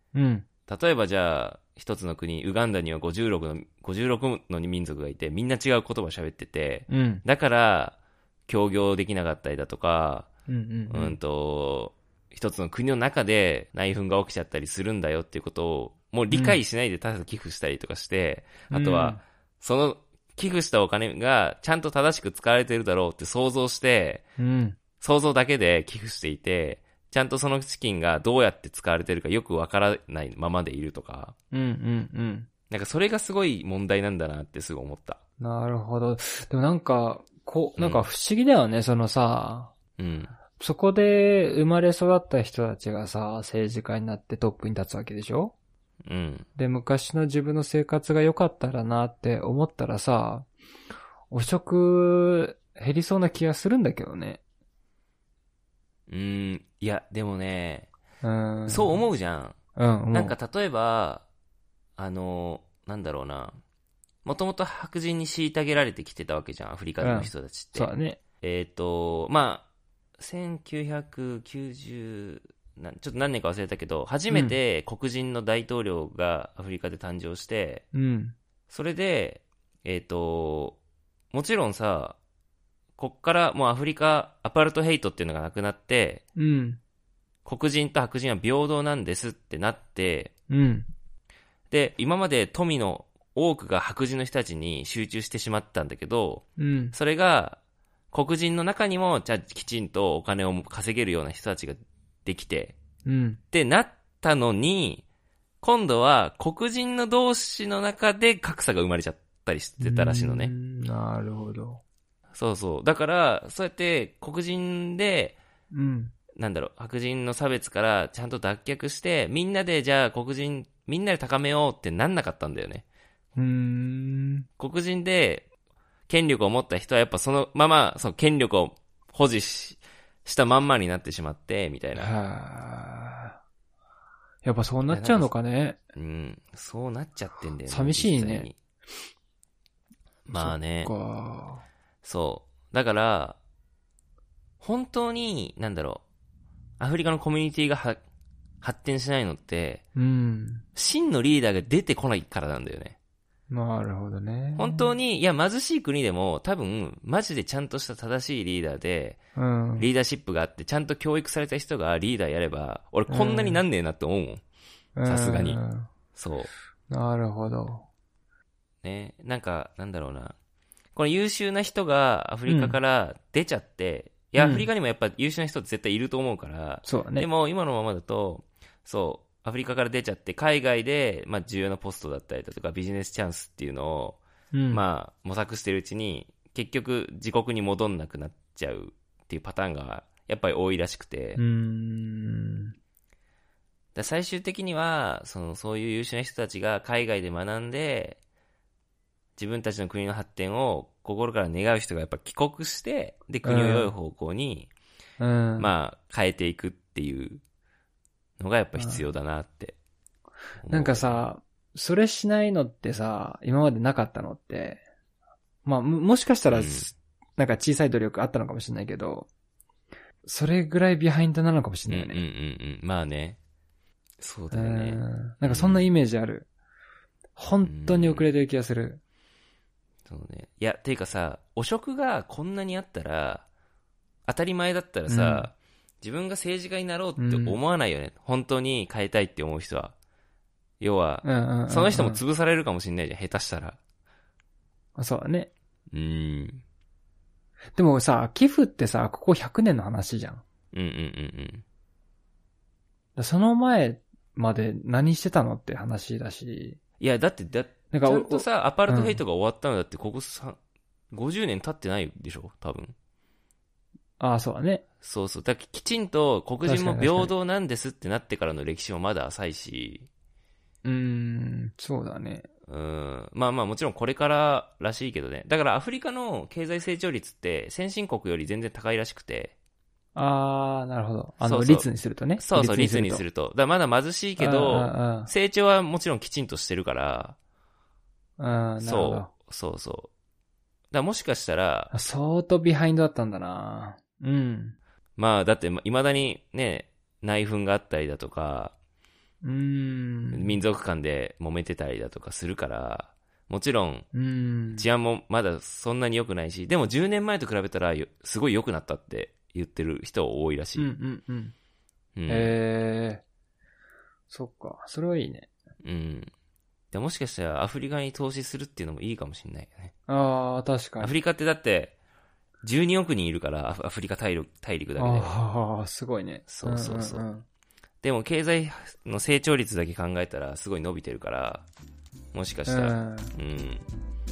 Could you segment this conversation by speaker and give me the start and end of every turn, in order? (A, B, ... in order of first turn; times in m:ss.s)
0:00.1-0:00.4 A
0:00.7-0:10.3 B
0:06.9-0:07.2 A
0:10.5-0:11.2 A
0:10.9-0:24.2 B
0:16.3-0:16.6 A
0:18.7-0:19.2 A
0:24.4-0:24.8 A
0:25.0-0:31.3 B
0:31.5-0:32.5 A
0:32.7-0:35.2 B
0:35.4-0:39.7 A
0:37.8-0:38.0 B
0:40.0-0:40.3 B
0:40.6-0:45.5 A
0:46.0-0:46.4 B
0:46.5-0:50.5 A
0:51.3-0:54.4 A
0:56.1-0:57.9 B
0:58.2-0:59.0 A
0:58.7-0:59.6 B
0:59.8-1:00.4 A
1:00.1-1:01.2 B
1:02.0-1:03.6 B
1:04.2-1:07.9 B
1:07.0-1:08.2 A
1:08.4-1:09.7 B
1:10.2-1:17.8 B
1:14.3-1:14.6 A
1:17.9-1:18.3 A
1:18.7-1:20.8 B
1:21.3-1:22.2 B
1:23.0-1:26.2 B
1:26.4-1:26.8 A
1:27.4-1:30.3 B
1:30.5-1:30.9 A
1:31.7-1:37.6 B
1:36.6-1:37.0 A
1:38.1-1:42.8 B
1:43.0-1:43.4 A
1:43.5-1:45.0 B
1:45.6-1:50.5 B
1:49.8-1:51.8 A
1:52.3-1:55.4 B
1:55.7-1:56.1 A
1:56.4-2:02.8 B
2:03.4-2:04.5 A
2:04.6-2:05.5 B
2:06.1-2:12.1 B
2:11.9-2:13.4 A
2:14.4-2:15.8 A
2:14.8-2:15.3 B
2:15.9-2:18.5 B
2:17.6-2:18.5 A
2:20.3-2:20.9 B
2:20.3-2:21.6 A
2:22.0-2:23.4 B
2:24.6-2:26.0 B
2:26.8-2:28.0 B
2:28.6-2:29.8 B
2:30.0-2:30.6 A
2:30.8-2:33.0 B
2:33.5-2:34.9 A
2:34.6-2:39.2 B
2:39.4-2:39.9 A
2:39.8-2:44.4 B
2:43.1-2:43.6 A
2:45.0-2:45.9 A
2:45.0-2:45.6 B
2:46.1-2:46.5 B
2:46.9-2:47.9 A
2:48.8-2:50.4 B
2:51.0-3:11.4 B
2:52.5-2:52.8 A
2:54.4-2:54.7 A
2:56.8-2:57.3 A
3:04.5-3:04.8 A
3:11.4-3:12.7 A
3:13.9-3:18.2 B
3:19.4-3:24.7 B
3:23.4-3:23.9 A
3:25.2-3:25.7 A
3:25.6-3:27.4 B
3:28.4-3:29.8 B
3:28.8-3:29.0 A
3:30.6-3:31.2 B
3:30.7-3:34.8 A
3:35.6-3:39.3 A
3:36.5-3:36.9 B
3:40.2-3:42.2 A
3:41.9-3:43.4 B
3:44.2-3:45.9 B
3:44.5-3:46.5 A
3:47.4-3:49.0 A
3:47.6-3:48.3 B
3:50.1-3:53.4 B
3:54.2-4:00.0 B
3:55.1-3:55.5 A
3:57.2-3:57.6 A
4:00.8-4:03.8 B
4:01.2-4:02.2 A
4:05.0-4:05.5 A
4:05.9-4:06.6 B
4:07.8-4:10.4 A
4:10.7-4:11.6 B
4:13.2-4:16.8 A
4:17.0-4:20.6 B
4:17.9-4:19.2 A
4:21.1-4:22.9 B
4:24.2-4:24.8 A
4:25.0-4:30.1 B
4:26.6-4:27.3 A
4:30.8-4:32.5 A
4:32.7-4:39.5 B
4:40.1-4:43.2 A
4:41.4-4:47.4 B
4:44.4-4:45.3 A
4:48.4-4:49.3 A
4:48.8-4:50.1 B
4:50.9-4:51.9 B
4:51.9-4:54.8 A
4:55.2-4:58.7 B
4:59.4-5:00.6 A
5:00.3-5:04.1 B
5:04.1-5:04.9 A
5:04.8-5:10.9 B
5:10.8-5:11.5 A
5:12.2-5:12.5 B
5:12.3-5:13.2 A
5:14.3-5:15.5 A
5:15.8-5:16.3 B
5:16.9-5:19.9 B
5:20.1-5:21.1 A
5:21.0-5:21.9 B
5:22.6-5:25.4 B
5:25.0-5:27.4 A
5:26.5-5:27.2 B
5:28.0-5:31.7 B
5:32.3-5:33.8 B
5:32.7-5:33.3 A